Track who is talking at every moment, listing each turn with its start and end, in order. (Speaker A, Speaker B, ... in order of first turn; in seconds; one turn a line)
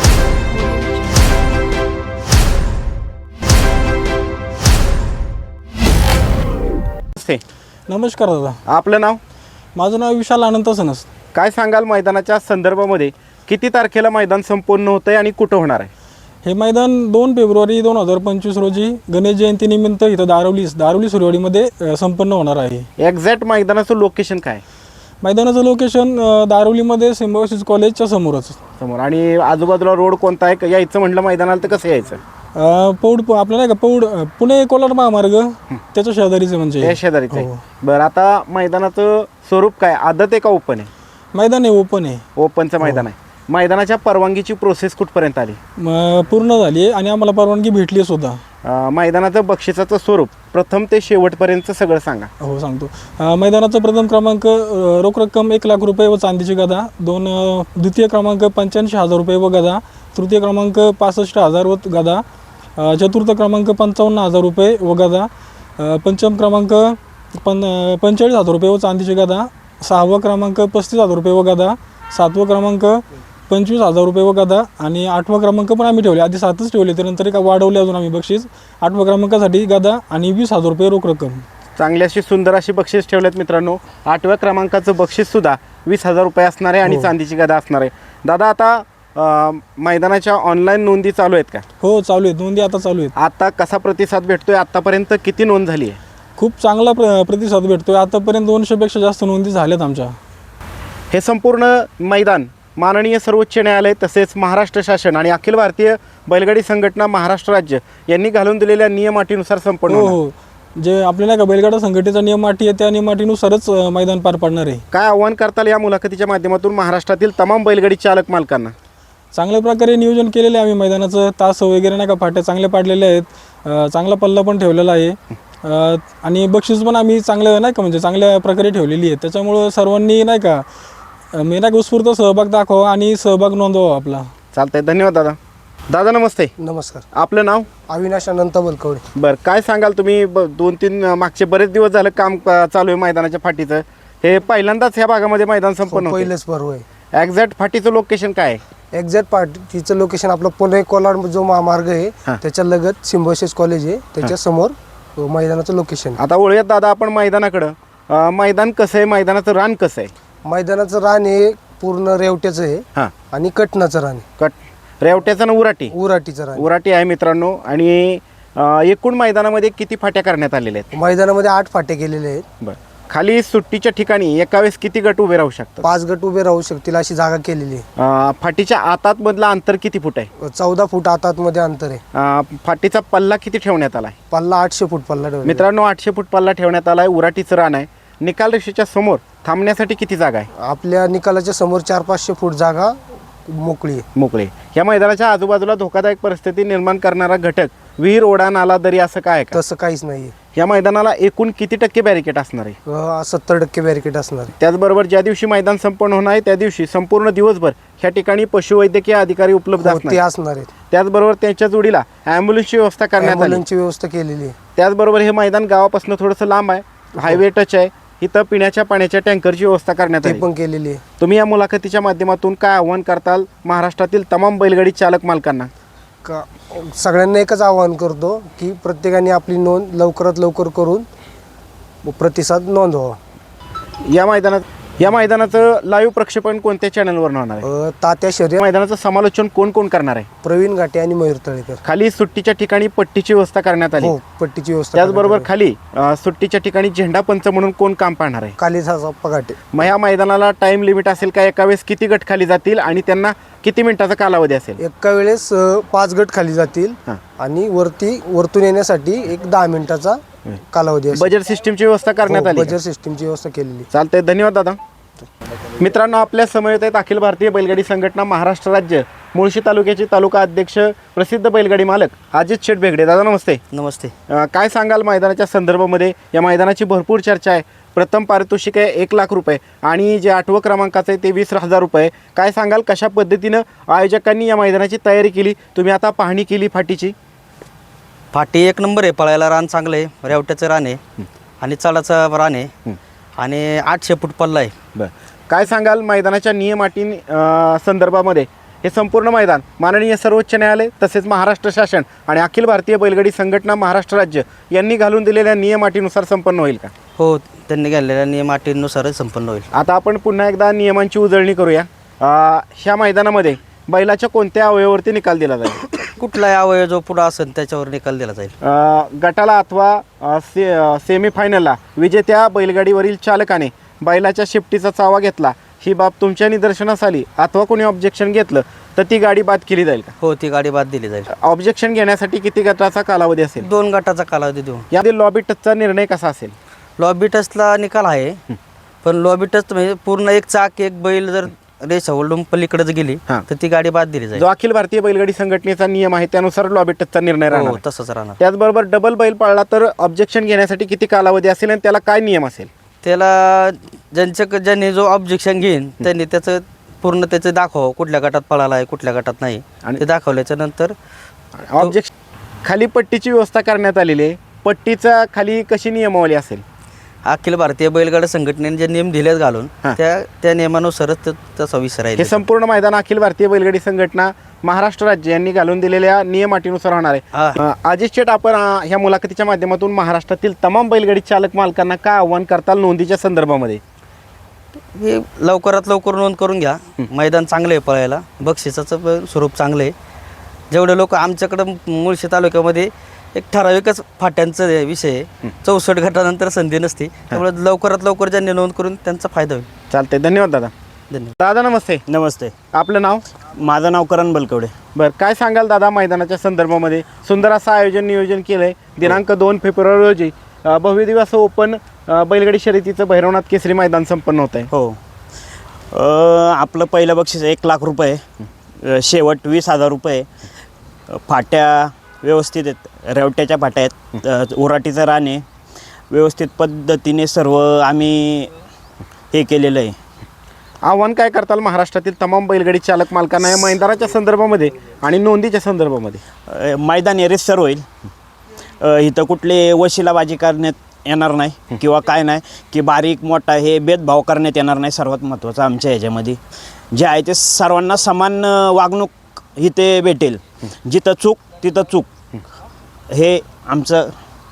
Speaker A: 7.2-7.4
Speaker B: 7.9-8.6
Speaker A: 8.7-9.2
Speaker B: 9.8-11.1
Speaker A: 11.3-15.9
Speaker B: 16.4-22.9
Speaker A: 23.0-24.6
Speaker B: 25.2-28.6
Speaker A: 28.8-32.2
Speaker B: 32.6-37.6
Speaker A: 36.8-40.9
Speaker B: 41.3-42.2
Speaker A: 42.4-45.6
Speaker B: 45.8-48.4
Speaker A: 48.6-52.3
Speaker B: 52.4-62.2
Speaker B: 62.8-81.4
Speaker A: 81.8-91.7
Speaker B: 91.8-93.1
Speaker A: 93.2-96.0
Speaker B: 96.4-100.2
Speaker A: 101.1-110.2
Speaker B: 109.9-114.8
Speaker A: 114.9-118.7
Speaker B: 119.3-130.7
Speaker B: 131.3-134.3
Speaker A: 134.5-135.4
Speaker A: 135.9-136.5
Speaker C: 136.6-137.1
Speaker A: 137.1-137.7
Speaker C: 137.9-139.0
Speaker A: 139.2-146.3
Speaker C: 145.9-146.8
Speaker A: 147.2-148.6
Speaker C: 148.9-156.2
Speaker A: 156.2-160.1
Speaker C: 160.5-164.2
Speaker A: 164.4-165.9
Speaker C: 165.9-166.7
Speaker A: 166.6-170.9
Speaker C: 170.9-172.5
Speaker A: 172.6-175.9
Speaker C: 175.8-177.8
Speaker A: 178.0-180.3
Speaker C: 180.4-182.0
Speaker A: 182.1-184.2
Speaker C: 184.3-185.7
Speaker A: 185.4-190.5
Speaker C: 190.6-194.1
Speaker A: 194.2-199.6
Speaker C: 199.5-200.3
Speaker A: 200.6-202.8
Speaker C: 202.9-204.5
Speaker A: 204.6-210.2
Speaker C: 209.8-210.7
Speaker A: 210.9-213.6
Speaker C: 213.2-214.6
Speaker A: 214.8-220.4
Speaker C: 220.2-221.0
Speaker A: 221.2-225.7
Speaker C: 226.2-231.1
Speaker C: 232.0-233.2
Speaker A: 234.1-237.7
Speaker C: 237.6-238.6
Speaker A: 238.6-240.3
Speaker C: 240.4-241.8
Speaker A: 241.8-244.2
Speaker C: 244.0-245.5
Speaker A: 244.9-248.6
Speaker C: 248.6-249.7
Speaker A: 249.7-254.8
Speaker C: 254.8-261.3
Speaker A: 261.1-262.8
Speaker C: 262.3-263.9
Speaker A: 263.9-264.8
Speaker A: 265.8-273.6
Speaker D: 273.7-274.1
Speaker A: 274.3-287.1
Speaker D: 288.3-291.0
Speaker D: 291.6-292.7
Speaker D: 293.4-294.7
Speaker A: 295.0-306.9
Speaker D: 307.2-309.7
Speaker A: 309.7-315.9
Speaker D: 316.2-318.5
Speaker A: 318.6-330.1
Speaker D: 330.2-331.3
Speaker A: 331.4-333.7
Speaker D: 333.6-334.9
Speaker A: 334.9-336.6
Speaker D: 337.0-338.4
Speaker D: 339.0-344.4
Speaker A: 344.4-347.8
Speaker D: 347.5-348.4
Speaker A: 348.4-352.7
Speaker D: 353.0-360.9
Speaker A: 361.7-362.1
Speaker A: 362.6-366.6
Speaker D: 367.3-372.4
Speaker A: 372.2-383.8
Speaker D: 384.9-389.9
Speaker D: 390.7-399.7
Speaker A: 399.9-400.7
Speaker A: 401.4-402.0
Speaker E: 402.1-402.5
Speaker A: 402.7-403.2
Speaker E: 403.5-404.7
Speaker A: 404.9-414.7
Speaker E: 414.7-415.0
Speaker E: 415.9-418.2
Speaker E: 418.8-420.3
Speaker E: 421.1-425.4
Speaker E: 426.1-428.5
Speaker E: 429.3-430.0
Speaker A: 430.8-436.2
Speaker E: 436.5-437.9
Speaker E: 438.8-446.4
Speaker E: 446.9-452.1
Speaker E: 453.1-454.1